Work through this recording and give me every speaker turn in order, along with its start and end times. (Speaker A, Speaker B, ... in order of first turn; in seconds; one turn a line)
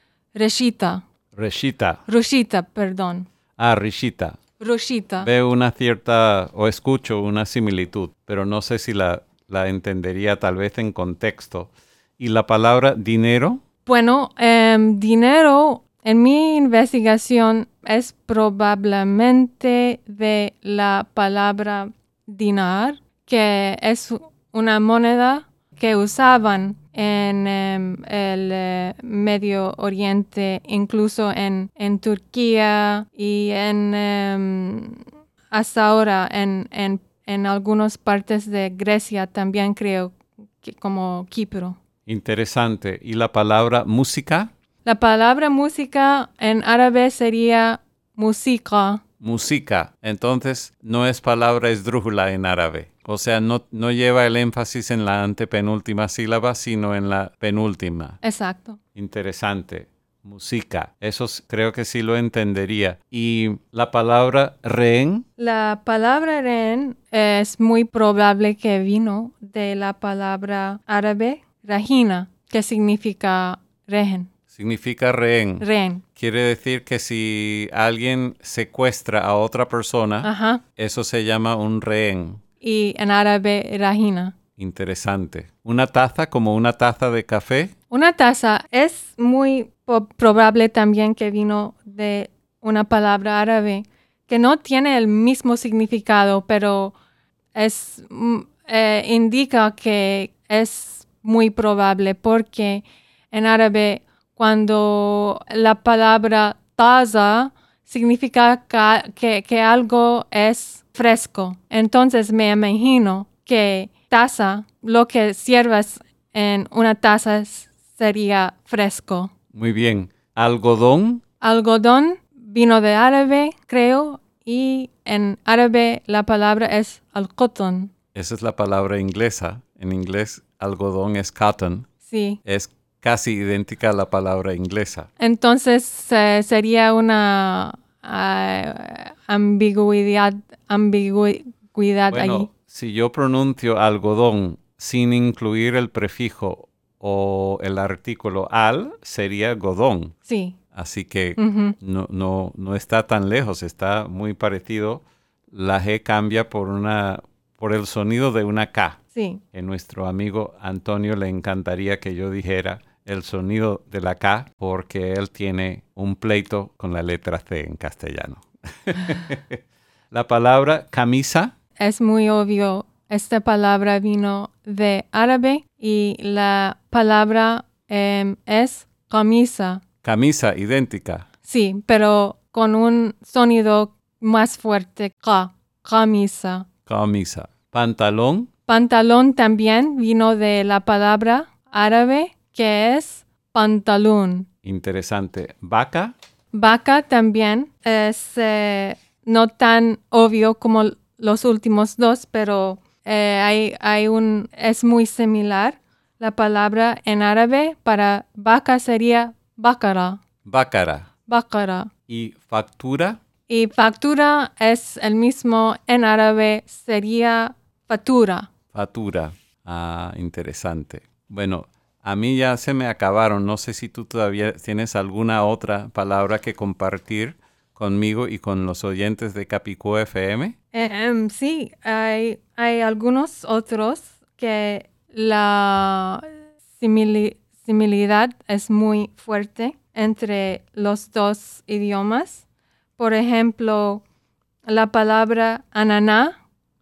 Speaker A: 0.3-1.0
Speaker B: 1.4-2.0
Speaker A: 2.1-3.3
Speaker B: 3.6-4.4
Speaker A: 4.6-5.3
Speaker B: 5.2-13.6
Speaker A: 13.9-41.8
Speaker B: 42.1-44.5
Speaker A: 44.9-49.0
Speaker B: 49.2-58.2
Speaker A: 58.2-58.8
Speaker B: 59.0-65.2
Speaker A: 65.4-74.3
Speaker B: 74.5-75.7
Speaker A: 75.6-76.0
Speaker B: 76.2-82.4
Speaker A: 80.2-80.6
Speaker A: 82.6-84.3
Speaker B: 84.6-87.7
Speaker A: 87.9-96.9
Speaker A: 97.5-119.3
Speaker B: 119.5-121.2
Speaker A: 121.4-127.9
Speaker B: 128.2-131.9
Speaker A: 132.1-132.4
Speaker B: 132.4-135.1
Speaker A: 135.2-142.5
Speaker B: 142.1-150.1
Speaker A: 150.3-150.6
Speaker B: 150.7-159.0
Speaker A: 151.4-151.8
Speaker A: 159.2-159.4
Speaker B: 159.5-169.6
Speaker B: 170.1-171.5
Speaker A: 171.8-179.8
Speaker B: 180.0-181.2
Speaker A: 181.5-186.7
Speaker B: 186.9-188.5
Speaker A: 188.7-194.5
Speaker B: 194.6-196.1
Speaker A: 196.5-210.2
Speaker B: 210.5-211.1
Speaker A: 211.3-211.9
Speaker B: 212.1-213.2
Speaker A: 213.5-218.5
Speaker B: 218.7-230.6
Speaker A: 230.7-236.3
Speaker A: 236.8-242.4
Speaker A: 243.0-244.0
Speaker A: 244.7-246.3